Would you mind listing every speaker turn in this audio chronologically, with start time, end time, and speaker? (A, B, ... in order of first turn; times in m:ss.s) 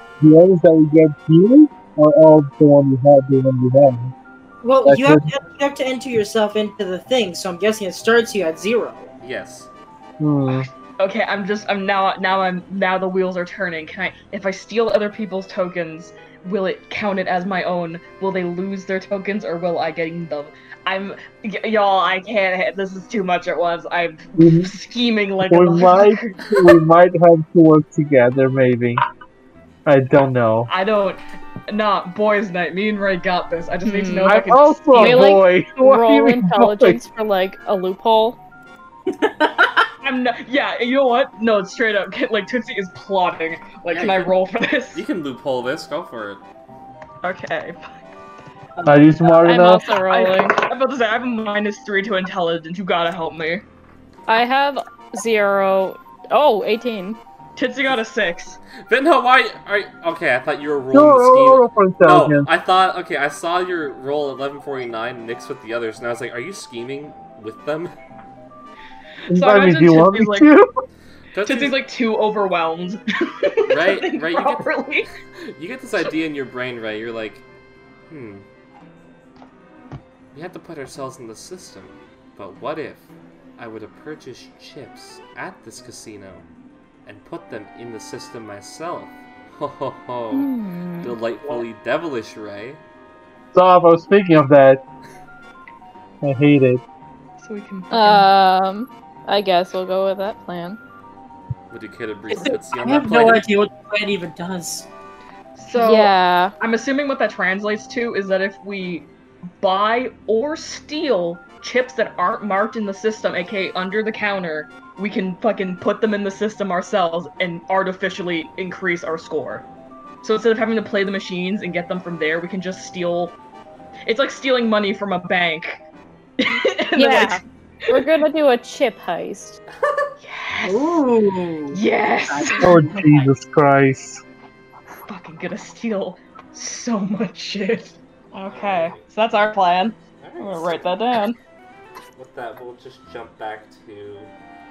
0:00.2-0:04.1 A
0:04.6-0:09.1 B
0:04.8-0:05.3 A
0:09.2-0:09.7 C
0:10.2-0:10.7 A
0:10.5-0:26.4 D
0:24.4-0:24.7 A
0:25.5-0:29.0 A
0:29.8-0:30.7 A
0:30.7-0:35.4 D
0:33.8-0:34.4 E
0:34.2-0:37.0 A
0:34.9-0:38.4 E
0:39.2-0:39.8 B
0:40.0-0:45.0 D
0:43.9-0:44.3 C
0:44.9-0:46.4 C
0:47.2-0:48.1 D
0:48.8-0:49.4 B
0:48.8-0:49.8 A
0:49.4-0:50.6 E
0:50.0-0:53.6 D
0:54.3-0:57.2 E
0:57.6-0:58.6 D
0:58.8-1:07.9 C
1:00.9-1:02.5 A
1:09.3-1:10.5 D
1:09.3-1:10.7 A
1:11.3-1:11.8 C
1:11.4-1:15.1 D
1:13.6-1:14.7 C
1:15.2-1:17.4 C
1:18.1-1:18.4 C
1:20.3-1:26.4 C
1:27.0-1:30.5 C
1:30.3-1:31.1 E
1:31.0-1:32.8 C
1:33.5-1:34.8 A
1:36.2-1:36.8 A
1:37.4-1:38.3 D
1:37.9-1:40.8 E
1:41.7-1:43.5 C
1:42.3-1:44.9 B
1:45.6-1:49.1 D
1:45.7-1:46.5 E
1:49.6-1:59.6 D
2:00.2-2:03.3 D
2:04.0-2:05.8 D
2:06.4-2:08.1 D
2:07.0-2:09.6 E
2:09.8-2:10.1 C
2:10.2-2:11.0 D
2:10.6-2:13.3 B
2:11.7-2:12.9 D
2:12.6-2:14.2 A
2:15.1-2:21.4 D
2:18.5-2:19.0 C
2:20.2-2:20.8 C
2:22.2-2:24.3 C